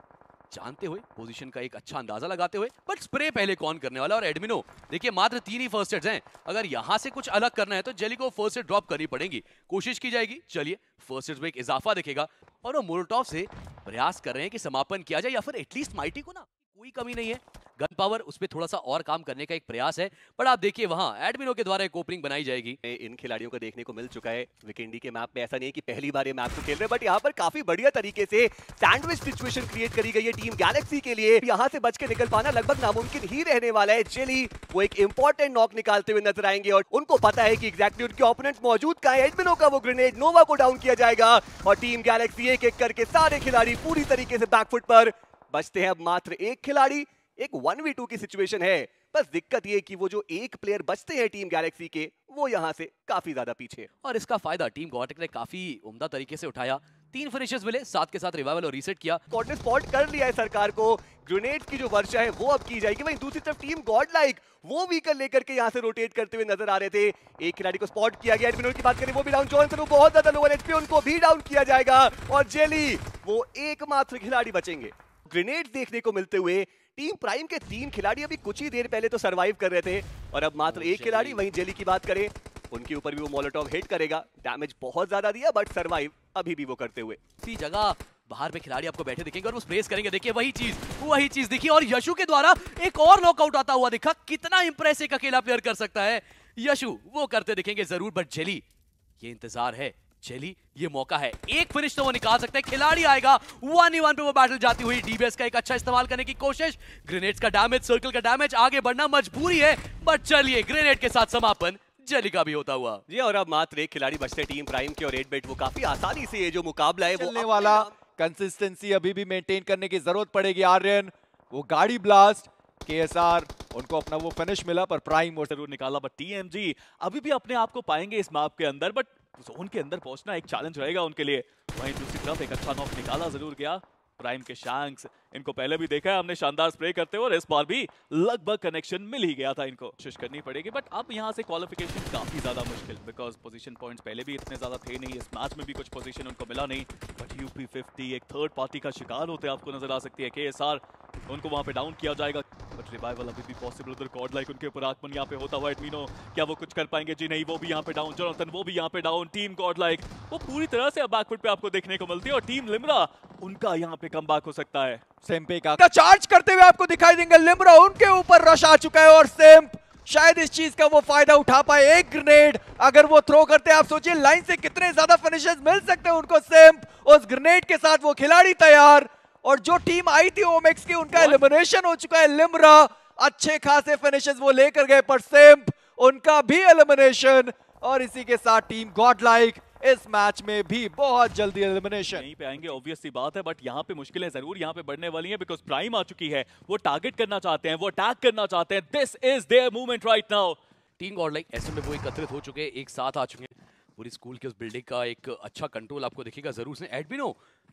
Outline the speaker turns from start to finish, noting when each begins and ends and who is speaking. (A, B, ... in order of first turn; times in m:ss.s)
0:00.5-0:22.8 A
0:22.8-0:53.9 B
0:54.0-0:59.2 A
0:59.3-1:27.2 B
1:20.6-1:21.5 A
1:27.4-1:38.6 A
1:39.2-1:53.0 A
1:53.1-1:57.9 B
1:57.1-2:05.5 C
2:05.5-2:45.0 D
2:45.2-3:12.2 C
3:12.1-3:20.6 D
3:21.0-3:27.4 A